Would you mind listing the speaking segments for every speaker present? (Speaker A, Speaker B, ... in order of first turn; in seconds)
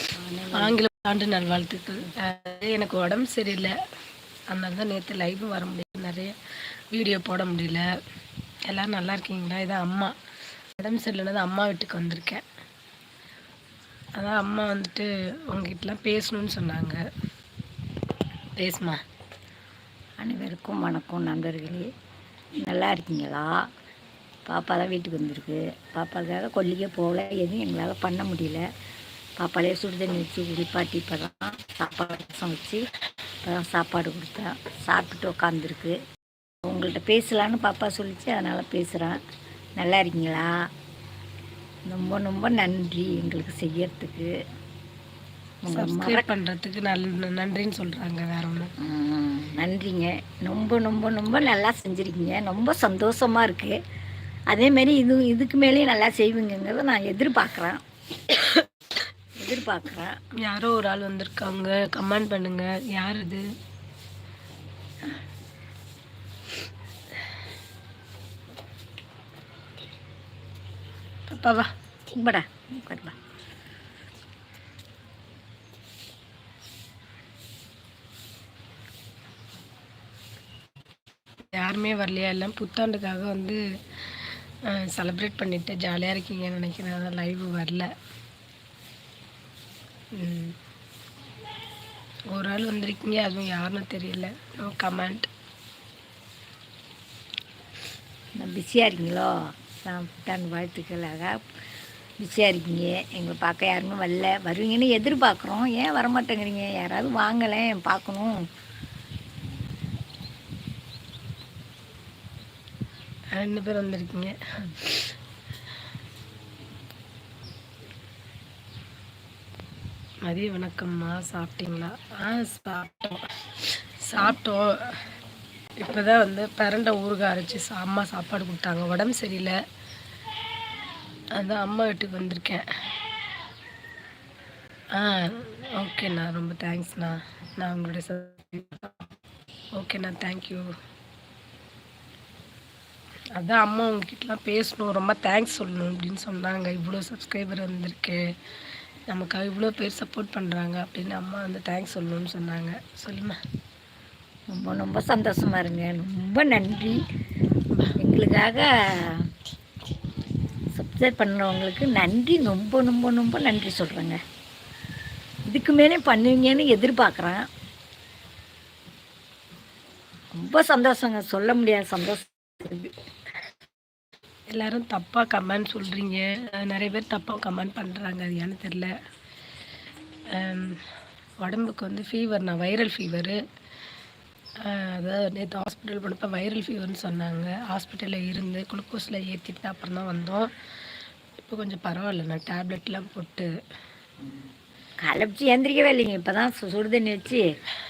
Speaker A: 0.2-0.8, 20.2-21.9, 22.6-23.5, 24.5-28.6, 29.4-32.9, 33.4-36.0, 36.6-39.2, 39.8-40.5, 41.9-44.3, 45.6-46.3, 48.8-53.8, 54.5-57.8, 59.4-60.1, 72.1-73.2, 98.4-101.4, 102.2-108.4, 154.5-157.0, 158.0-159.3, 160.7-164.2, 165.5-167.4, 170.3-172.9, 195.0-197.4
Speaker B: 0.5-3.8, 4.5-6.3, 6.9-7.9, 8.7-10.1, 10.8-12.4, 14.2-17.0, 18.6-19.0, 45.7-48.7, 60.4-63.5, 71.3-71.7, 81.5-83.6, 84.6-87.9, 90.2-90.6, 92.3-95.3, 113.3-115.1, 120.2-125.0, 125.8-129.6, 131.3-132.6, 134.9-139.1, 139.8-140.7, 143.3-148.2, 149.1-153.4, 174.5-178.9, 180.3-180.8, 181.4-183.4, 184.6-190.5, 191.5-193.5